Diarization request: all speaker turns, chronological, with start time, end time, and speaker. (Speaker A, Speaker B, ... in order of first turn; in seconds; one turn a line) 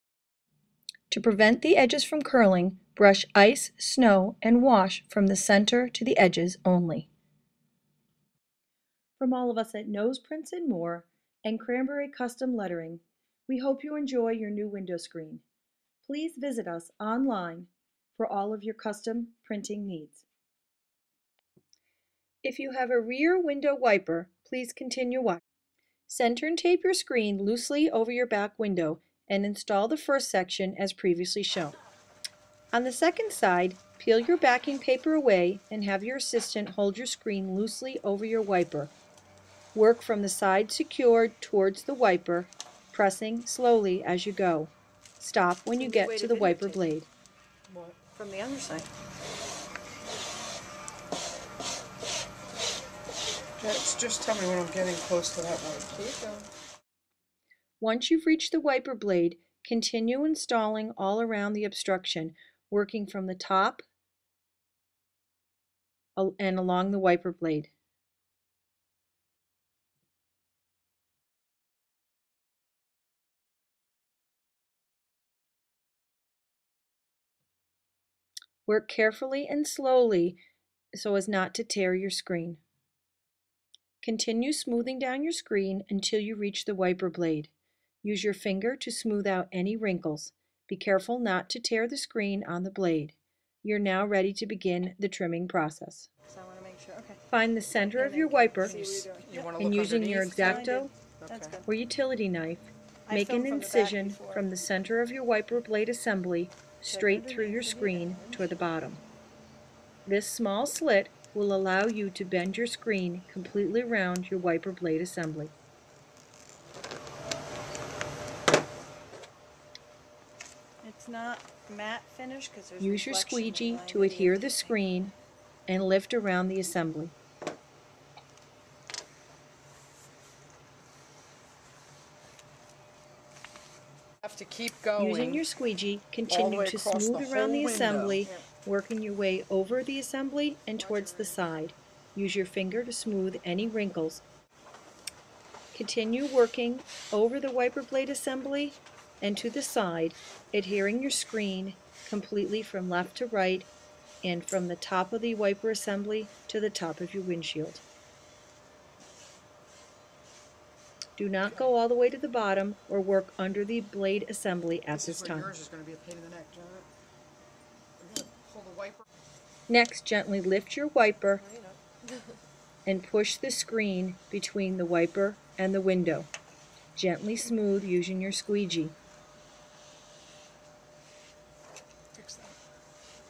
Speaker A: 1.1-7.1
Speaker A: 9.2-15.4
Speaker A: 16.0-20.3
Speaker A: 22.4-25.4
Speaker A: 26.1-31.8
Speaker A: 32.7-38.9
Speaker A: 39.8-47.1
Speaker B: 45.8-46.9
Speaker C: 47.7-48.1
Speaker B: 48.2-48.9
Speaker C: 53.6-56.5
Speaker A: 57.8-63.8
Speaker A: 66.2-67.7
Speaker A: 78.7-80.4
Speaker A: 80.9-82.6
Speaker A: 84.0-87.5
Speaker A: 88.0-96.1
Speaker B: 96.3-97.2
Speaker A: 97.3-99.1
Speaker B: 97.9-99.6
Speaker C: 99.2-100.7
Speaker A: 99.6-100.9
Speaker B: 100.3-101.7
Speaker C: 101.2-101.6
Speaker A: 101.7-109.0
Speaker B: 103.1-104.5
Speaker B: 106.9-108.4
Speaker A: 110.1-115.5
Speaker B: 120.8-124.7
Speaker A: 122.8-125.1
Speaker A: 125.7-127.1
Speaker C: 134.2-135.4
Speaker A: 135.0-144.2
Speaker C: 136.3-138.4
Speaker B: 140.8-141.4
Speaker A: 145.7-153.7
Speaker A: 154.2-157.8
Speaker A: 161.2-165.5
Speaker C: 164.9-166.9
Speaker C: 168.0-169.0
Speaker A: 169.7-171.4
Speaker B: 171.5-171.8
Speaker A: 172.9-176.3
Speaker A: 177.0-178.9
Speaker C: 182.1-182.6